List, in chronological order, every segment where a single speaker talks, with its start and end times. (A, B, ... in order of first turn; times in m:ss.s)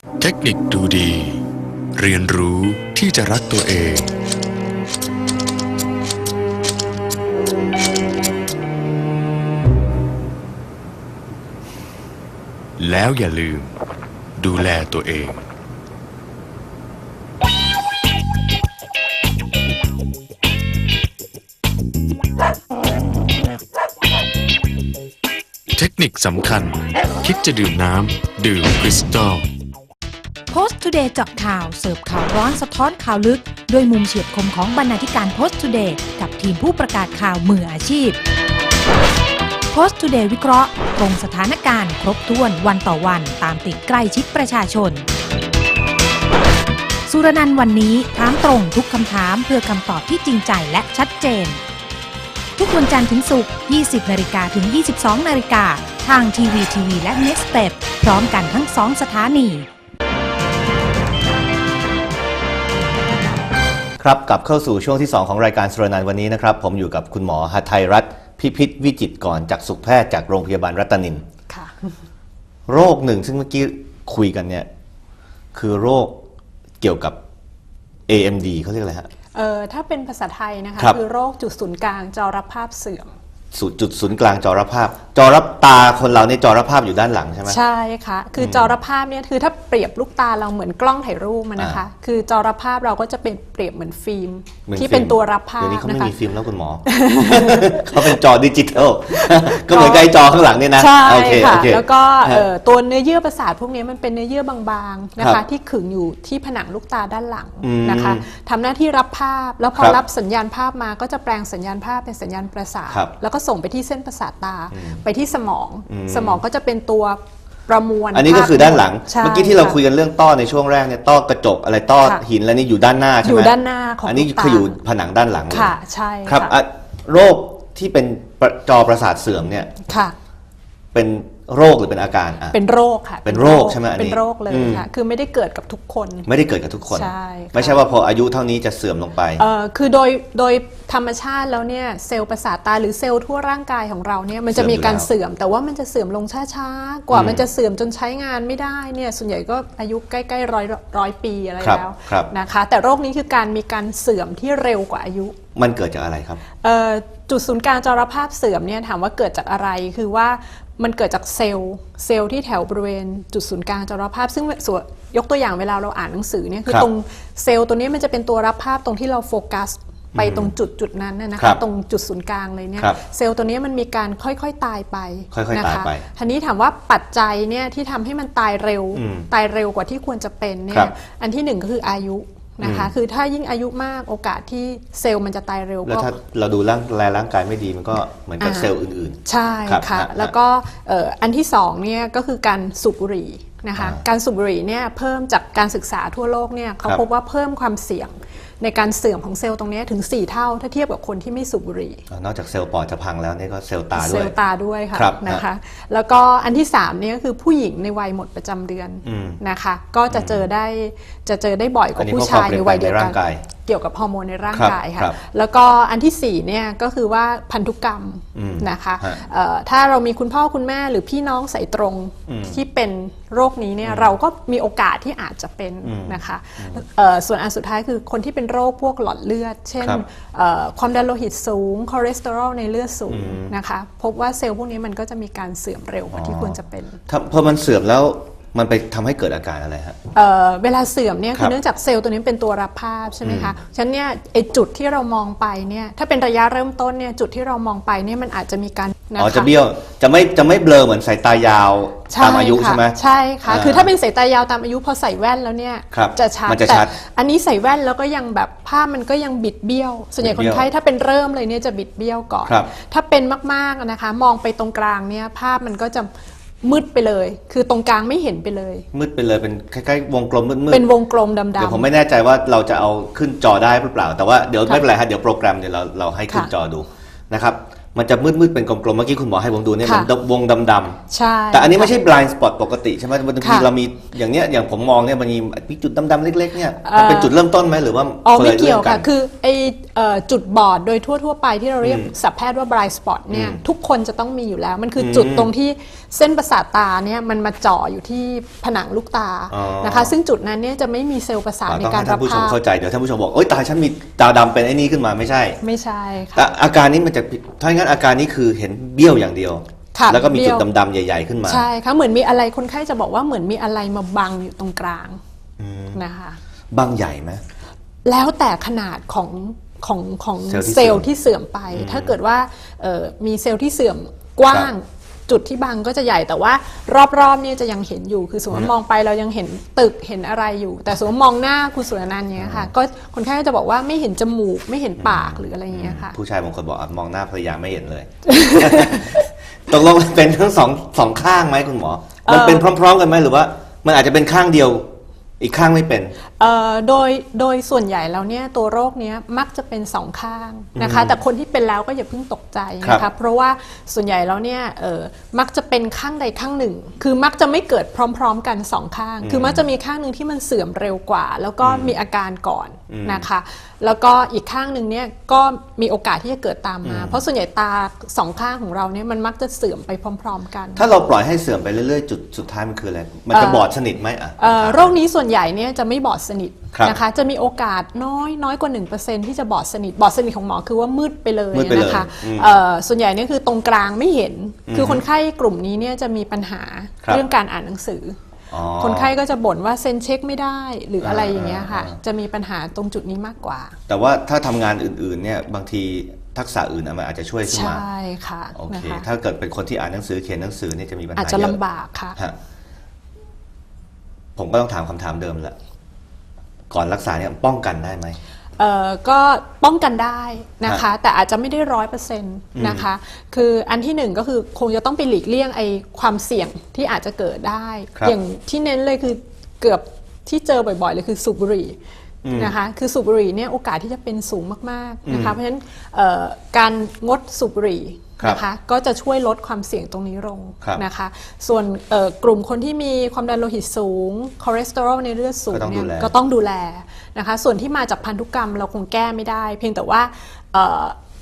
0:00.2-0:01.4 A
0:02.0-0:04.1 A
0:12.8-0:13.7 A
0:14.4-0:15.4 A
0:25.7-0:29.4 A
0:30.5-0:38.2 B
0:39.7-0:45.0 B
0:47.1-0:51.6 B
0:52.6-0:59.7 B
1:04.0-1:11.2 C
1:11.5-1:12.0 D
1:12.7-1:14.7 C
1:15.5-1:16.2 C
1:16.8-1:17.2 C
1:18.1-1:19.1 C
1:19.4-1:23.1 D
1:23.5-1:27.6 C
1:27.5-1:36.1 D
1:28.4-1:28.7 C
1:31.6-1:31.8 C
1:34.7-1:42.5 C
1:36.9-1:38.2 D
1:39.2-1:40.1 D
1:40.8-1:59.8 D
1:47.6-1:48.2 C
1:54.7-1:55.0 C
1:55.9-1:56.4 C
1:58.1-2:05.8 C
2:03.2-2:04.8 D
2:05.5-2:06.6 D
2:06.3-2:09.8 C
2:09.9-2:10.2 D
2:10.9-2:12.6 C
2:12.5-2:16.3 D
2:13.2-2:14.9 C
2:16.3-2:19.4 C
2:16.9-2:17.8 D
2:19.4-2:35.4 D
2:24.5-2:25.1 C
2:27.1-2:27.4 C
2:31.6-2:32.3 C
2:35.6-2:36.4 C
2:36.6-3:06.1 D
2:50.1-2:50.5 C
2:55.3-2:56.0 C
2:59.0-2:59.3 C
3:02.6-3:02.9 C
3:05.8-3:10.3 C
3:08.4-3:08.7 D
3:09.3-3:22.0 D
3:13.8-3:14.0 C
3:22.1-3:24.4 C
3:24.0-3:57.0 D
3:24.9-3:25.4 C
3:29.0-3:29.4 C
3:30.1-3:30.4 C
3:32.0-3:33.5 C
3:34.5-3:35.2 C
3:38.4-3:39.2 C
3:42.3-3:42.6 C
3:43.8-3:44.1 C
3:45.8-3:46.8 C
3:53.1-3:53.5 C
3:56.1-3:56.6 C
3:57.1-4:00.0 C
4:00.2-4:09.5 D
4:03.2-4:03.5 C
4:09.2-4:13.9 C
4:12.1-4:26.1 D
4:15.9-4:16.9 C
4:20.2-4:20.7 C
4:26.6-4:28.9 D
4:28.9-4:30.9 C
4:30.7-4:31.9 D
4:31.6-4:41.0 C
4:39.8-4:40.1 D
4:41.1-4:42.0 D
4:41.5-4:49.1 C
4:43.4-4:43.7 D
4:46.8-4:47.4 D
4:48.2-5:02.6 D
4:51.8-4:52.1 C
4:53.3-4:53.6 C
4:55.0-4:55.5 C
4:59.5-5:00.1 C
5:01.7-5:05.6 C
5:05.6-5:06.5 D
5:06.4-5:11.7 C
5:09.9-5:10.7 D
5:11.4-5:15.2 D
5:15.6-5:16.0 C
5:15.9-5:16.4 D
5:16.7-5:17.4 C
5:18.0-5:36.2 D
5:20.5-5:21.1 C
5:21.7-5:22.2 C
5:32.4-5:32.7 C
5:35.0-5:46.2 C
5:38.3-5:39.2 D
5:42.2-5:42.7 D
5:46.4-6:10.9 D
5:50.8-5:51.2 C
5:59.2-5:59.6 C
6:01.6-6:01.9 C
6:02.9-6:03.3 C
6:06.8-6:07.2 C
6:10.8-6:15.0 C
6:13.3-6:13.7 D
6:14.4-6:28.2 D
6:16.7-6:17.0 C
6:21.5-6:22.6 C
6:24.7-6:25.0 C
6:28.5-6:29.1 C
6:28.8-6:33.8 D
6:31.0-6:32.0 C
6:33.9-6:37.8 C
6:37.5-6:39.0 D
6:38.6-6:41.6 C
6:41.2-6:42.2 D
6:44.4-6:45.6 C
6:46.7-6:48.2 C
6:48.6-7:01.8 D
6:52.6-6:52.9 C
7:02.2-7:02.5 C
7:02.3-7:21.0 D
7:05.1-7:05.4 C
7:15.5-7:16.1 C